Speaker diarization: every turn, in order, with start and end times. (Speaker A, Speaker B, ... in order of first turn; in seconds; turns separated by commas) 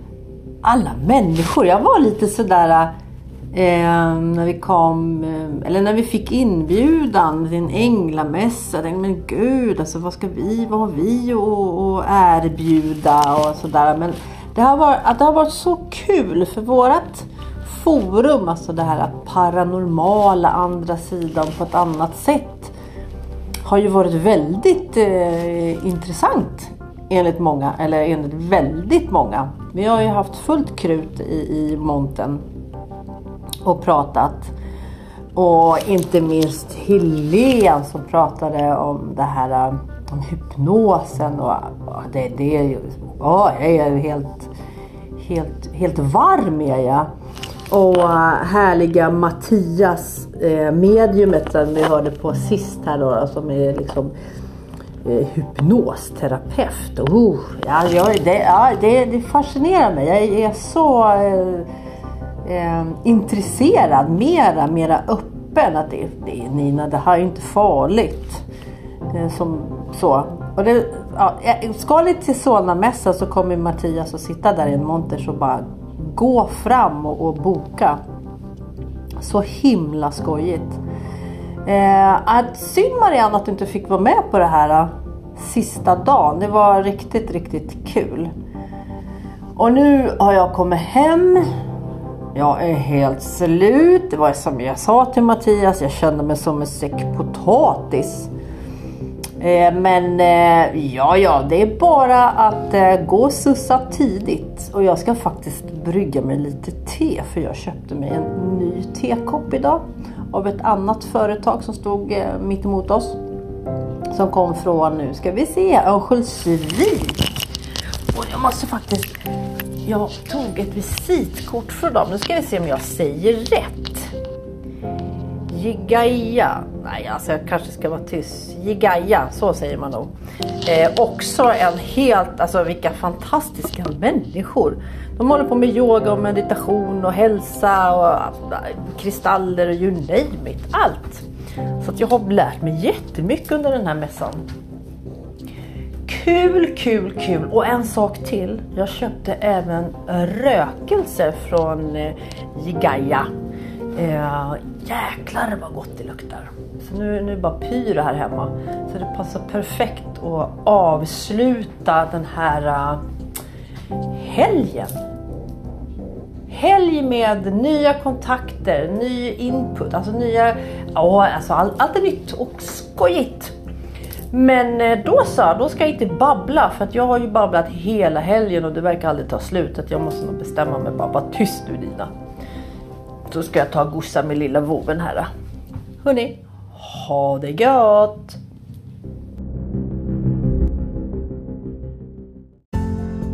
Speaker A: 0.6-2.9, Speaker A: 3.5-22.7, Speaker A: 23.6-32.4, Speaker A: 33.6-34.5, Speaker A: 35.4-44.5, Speaker A: 45.2-47.1, Speaker A: 47.7-54.1, Speaker A: 55.0-61.7, Speaker A: 62.5-68.4, Speaker A: 69.1-78.0, Speaker A: 79.2-80.8, Speaker A: 81.7-88.3, Speaker A: 89.6-91.5, Speaker A: 92.3-98.3, Speaker A: 99.4-113.2, Speaker A: 114.1-117.2, Speaker A: 118.1-119.1, Speaker A: 119.8-124.1, Speaker A: 125.5-130.1, Speaker A: 130.7-141.2, Speaker A: 141.8-144.4, Speaker A: 146.1-153.3, Speaker A: 153.9-163.0, Speaker A: 164.1-165.0, Speaker A: 166.5-173.5, Speaker A: 174.3-182.1, Speaker A: 183.3-185.3, Speaker A: 186.0-188.4